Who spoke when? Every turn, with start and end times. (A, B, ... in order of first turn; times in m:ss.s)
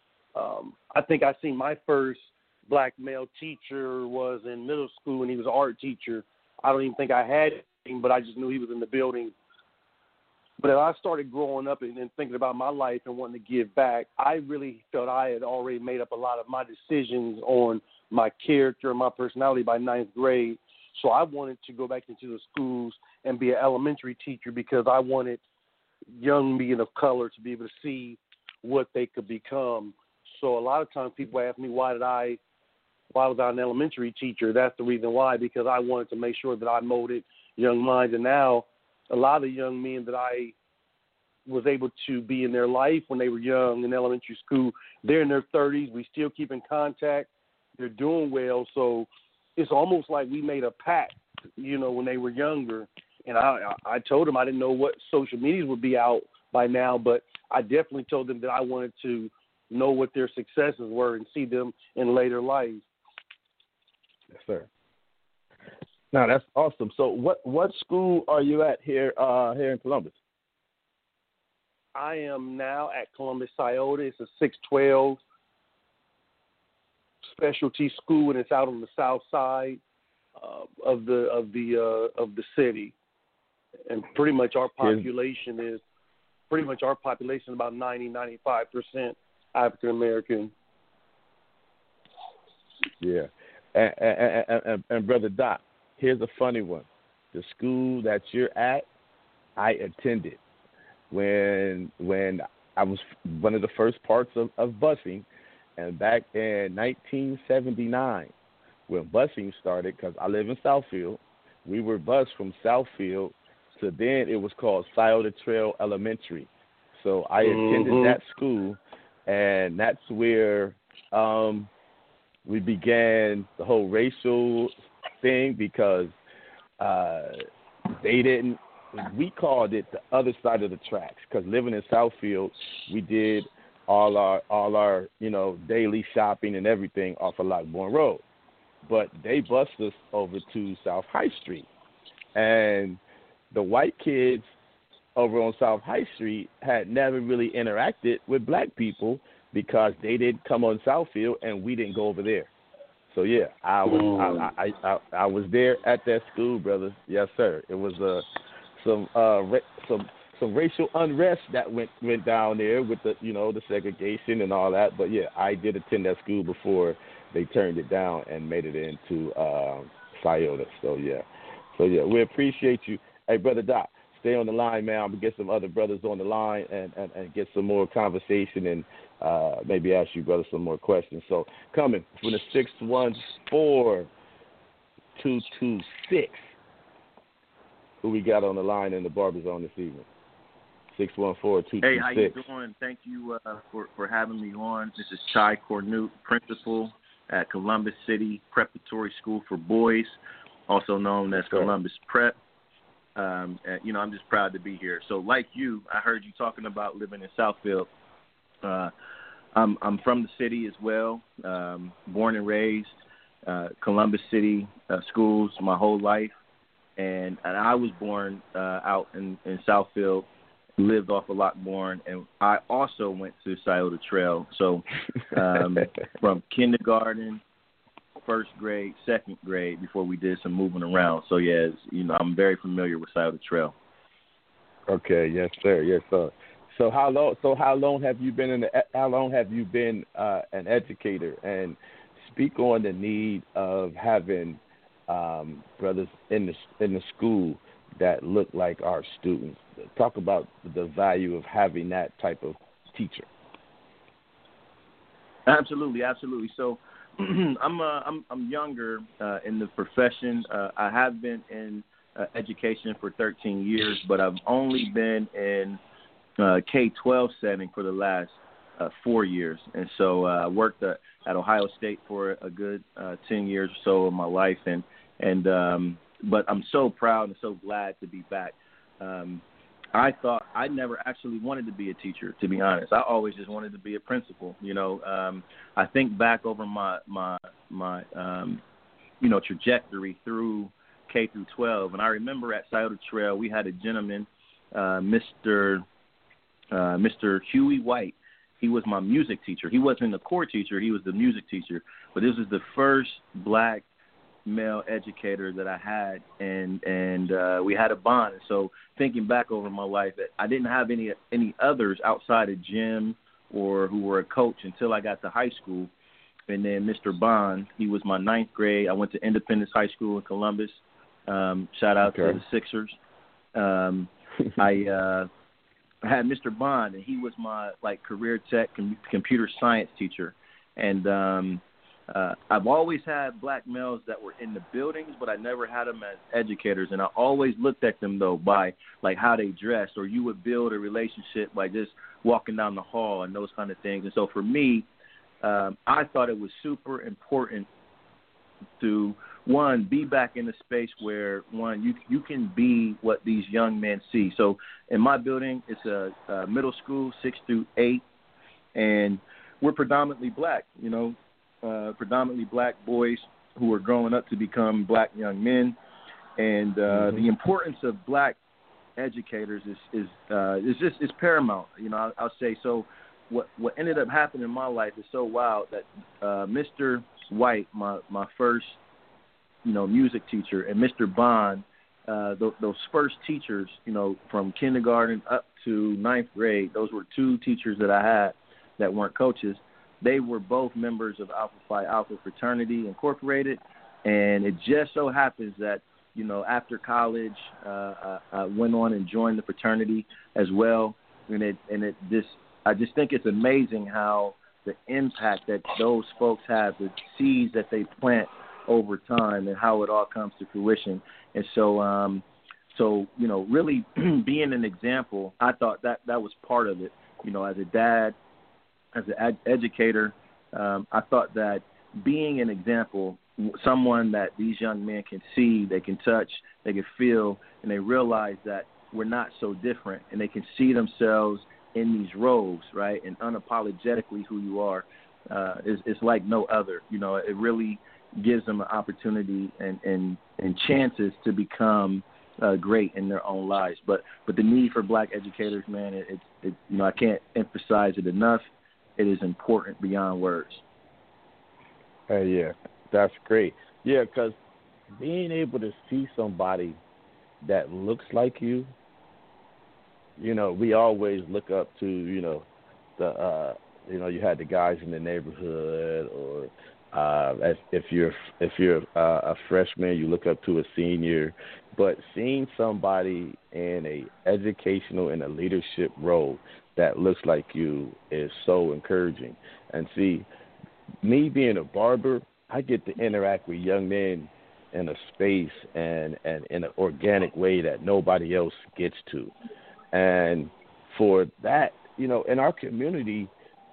0:00.4-0:09.3 A
0:10.6-0:25.4 A
0:26.2-0:32.4 A
0:33.1-0:40.6 A
0:41.5-1:02.8 A
1:04.3-1:04.7 B
1:06.1-1:10.2 B
1:12.0-1:15.2 A
1:17.3-1:19.8 A
1:20.4-1:22.9 A
1:23.9-1:25.8 A
1:24.8-1:25.1 B
1:26.5-1:30.5 A
1:33.0-1:38.9 B
1:39.6-1:40.4 B
1:41.1-1:45.3 B
1:45.8-1:48.3 B
1:48.9-2:01.7 B
1:57.4-1:58.2 A
2:02.5-2:06.1 B
2:06.8-2:07.4 B
2:08.0-2:18.2 B
2:18.8-2:21.7 B
2:22.4-2:23.0 B
2:23.5-2:24.5 B
2:25.2-2:32.5 B
2:33.1-2:38.2 B
2:38.8-2:51.2 B
2:51.8-3:04.1 B
3:05.2-3:06.5 B
3:08.0-3:10.1 B
3:11.0-3:12.4 B
3:11.8-3:20.2 C
3:20.7-3:22.4 C
3:21.4-3:21.7 B
3:23.2-3:27.9 C
3:28.6-3:28.9 C
3:29.5-3:32.9 C
3:33.5-3:36.4 C
3:37.0-3:47.4 C
3:48.2-3:53.8 C
3:54.9-4:13.3 B
4:15.5-4:25.8 C
4:26.4-4:48.6 C
4:49.2-4:55.8 C
4:56.7-5:03.9 C
5:04.4-5:15.9 C
5:16.5-5:23.0 C
5:22.0-5:22.4 B
5:23.6-5:25.3 C
5:26.0-5:44.9 C
5:45.4-5:47.7 C
5:48.8-5:58.0 C
5:58.8-6:05.8 C
6:06.4-6:08.4 C
6:06.9-6:07.2 B
6:09.0-6:18.8 C
6:19.6-6:58.2 C
6:58.9-7:28.4 C
7:29.0-7:30.6 C
7:32.1-7:34.4 B
7:35.0-7:36.8 B
7:37.4-7:38.7 B
7:40.2-7:42.5 B
7:43.0-8:00.3 B
8:01.0-8:09.3 B
8:09.9-8:13.3 B